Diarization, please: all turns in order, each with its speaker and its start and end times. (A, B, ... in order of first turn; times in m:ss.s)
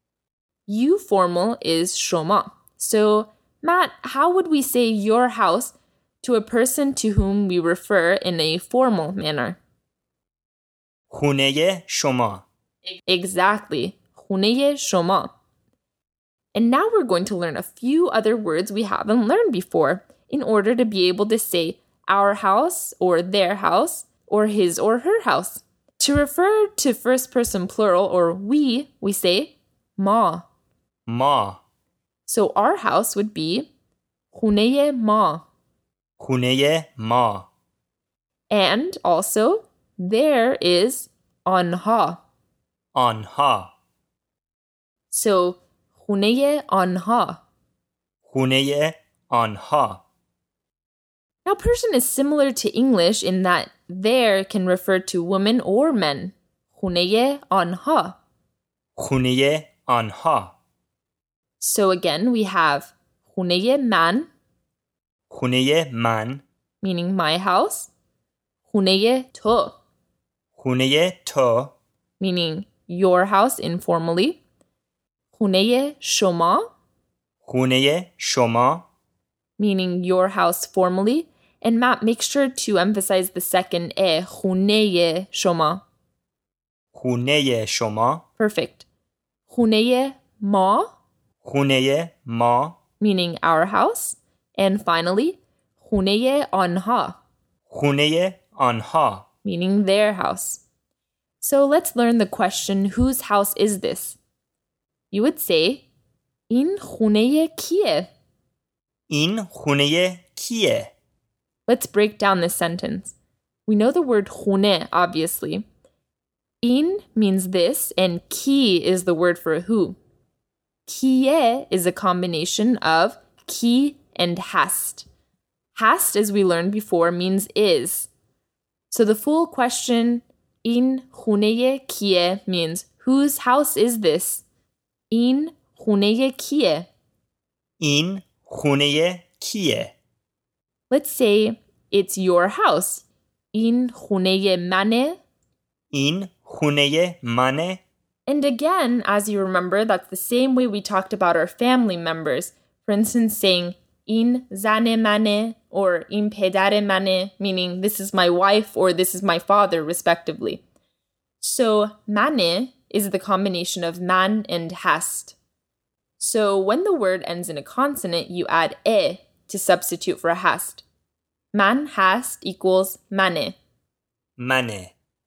0:00.7-0:09.6 A
0:11.1-0:12.4 B
0:13.1-0:15.3 A
0:16.6-0:30.5 A
0:31.1-0:31.6 B
0:32.3-0:33.7 A
0:34.3-0:35.5 A
0:36.2-0:37.5 B
0:38.5-0:42.2 A
0:43.0-0:43.7 B
0:45.1-0:47.4 A
0:48.3-0:50.0 B
0:51.4-0:58.2 A
0:59.0-1:00.5 B
1:01.6-1:04.3 A
1:05.3-1:06.4 B
1:06.8-1:07.9 A
1:08.7-1:09.8 A
1:10.6-1:11.7 B
1:12.2-1:14.4 A
1:15.3-1:16.7 A
1:17.4-1:18.9 B
1:19.6-1:25.8 A
1:27.0-1:28.2 B
1:28.4-1:28.9 A
1:29.5-1:30.9 A
1:31.4-1:32.8 B
1:33.0-1:37.2 A
1:37.7-1:39.3 B
1:39.4-1:40.6 A
1:41.4-1:44.2 A
1:45.1-1:45.9 A
1:46.5-1:48.1 A
1:49.1-1:50.9 B
1:51.7-1:53.2 A
1:53.7-1:55.6 A
1:56.6-2:00.0 A
2:00.9-2:05.1 A
2:05.8-2:08.1 A
2:08.9-2:14.4 A
2:15.1-2:16.9 A
2:17.8-2:19.9 B
2:20.9-2:25.2 A
2:25.9-2:27.8 B
2:28.3-2:40.6 A
2:41.4-2:45.4 A
2:46.2-2:50.8 A
2:51.5-2:53.6 A
2:54.4-2:54.9 B